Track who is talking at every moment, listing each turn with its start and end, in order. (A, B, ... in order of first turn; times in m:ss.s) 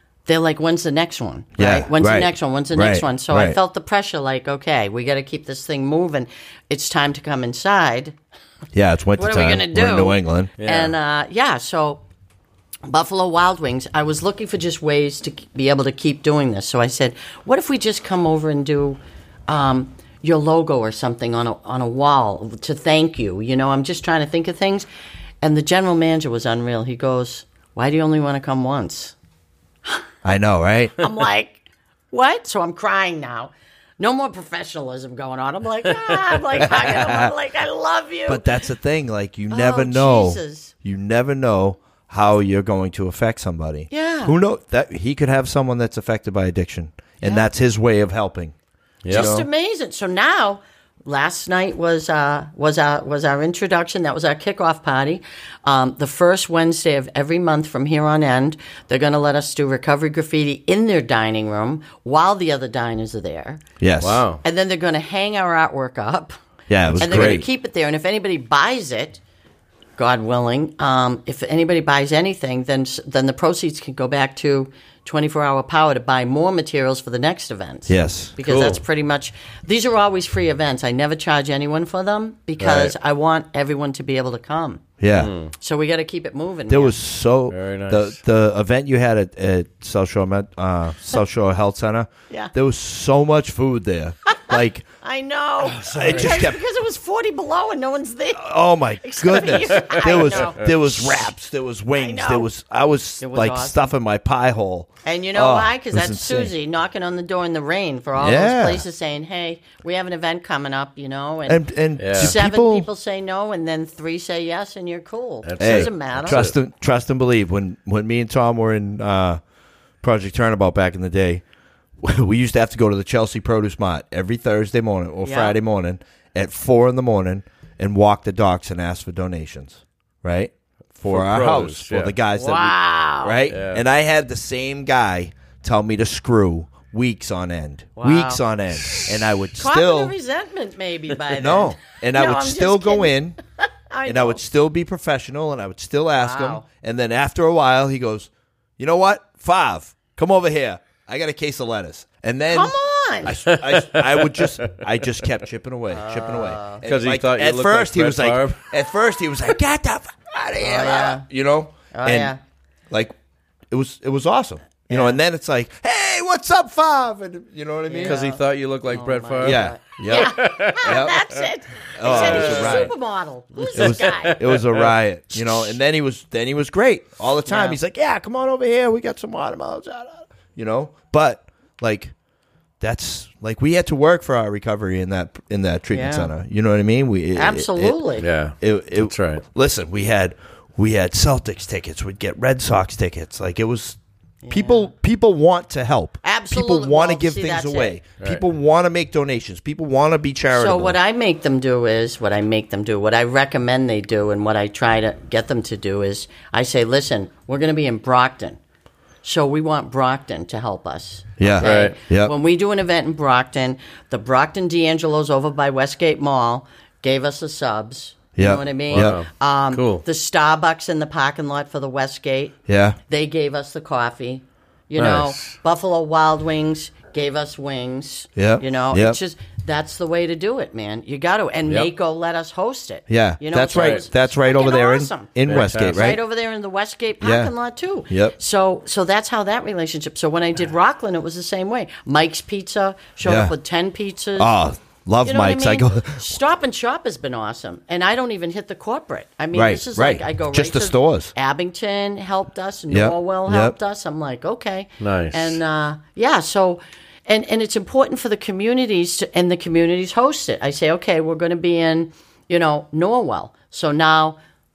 0:00.2-0:08.2 A
0:01.6-0:03.6 B
0:08.7-0:10.5 B
0:09.2-0:12.0 A
0:10.6-0:11.0 C
0:12.8-0:24.9 A
0:25.4-0:29.2 A
0:30.2-0:31.0 B
0:31.0-0:38.5 A
0:36.6-0:37.3 B
0:38.3-0:48.5 B
0:39.5-0:40.7 A
0:43.9-0:44.4 A
0:47.2-0:47.4 A
0:49.0-0:49.3 C
0:49.1-0:49.5 B
0:49.1-1:03.6 A
1:03.8-1:04.2 B
1:04.0-1:04.4 C
1:04.4-1:06.3 A
1:06.7-1:07.5 B
1:06.9-1:09.2 A
1:07.0-1:07.4 C
1:10.0-1:26.9 A
1:17.9-1:18.4 B
1:18.4-1:18.8 C
1:22.6-1:22.9 C
1:25.0-1:25.3 B
1:25.1-1:25.5 C
1:26.7-1:34.8 B
1:27.5-1:28.2 C
1:34.3-1:41.4 A
1:35.6-1:36.5 C
1:35.9-1:36.6 B
1:38.3-1:46.5 B
1:39.7-1:40.0 C
1:41.9-1:42.5 A
1:43.2-1:43.8 A
1:45.0-1:56.5 A
1:48.2-1:48.8 B
1:51.5-1:52.9 B
1:52.0-1:52.4 C
1:55.4-1:56.5 C
1:55.6-1:59.4 B
2:00.0-2:01.4 B
2:02.0-2:20.1 B
2:05.2-2:05.5 A
2:11.1-2:12.2 C
2:12.3-2:13.4 A
2:13.5-2:13.8 C
2:18.0-2:24.4 A
2:21.3-2:23.4 B
2:24.0-2:42.3 B
2:26.1-2:26.6 A
2:32.5-2:33.4 A
2:33.5-2:34.8 C
2:35.9-2:36.8 A
2:36.8-2:38.7 C
2:40.6-2:41.2 A
2:41.9-2:42.4 A
2:43.7-2:48.2 B
2:44.9-2:45.2 A
2:47.9-2:54.6 A
2:48.0-2:51.4 C
2:49.4-2:51.2 B
2:51.9-2:52.9 B
2:52.0-2:52.9 C
2:53.6-2:54.9 C
2:53.7-3:02.1 B
2:57.4-2:57.8 A
3:02.8-3:08.0 B
3:05.9-3:06.3 A
3:07.4-3:08.2 A
3:08.2-3:09.4 C
3:08.6-3:21.0 B
3:14.4-3:14.9 A
3:16.2-3:18.0 A
3:20.5-3:28.6 A
3:29.2-4:04.5 A
3:31.4-3:32.3 B
3:31.6-3:32.0 C
3:38.4-3:39.2 B
3:38.9-3:40.0 C
3:42.7-3:43.0 B
3:45.0-3:45.6 C
3:48.4-3:49.2 B
3:53.1-3:56.2 B
3:53.7-3:54.0 C
3:55.5-3:56.2 C
3:57.2-3:57.5 B
3:58.1-3:58.4 B
4:03.2-4:03.5 B
4:04.4-4:06.3 B
4:05.2-4:24.4 A
4:09.5-4:11.3 B
4:12.9-4:13.8 B
4:15.0-4:15.6 C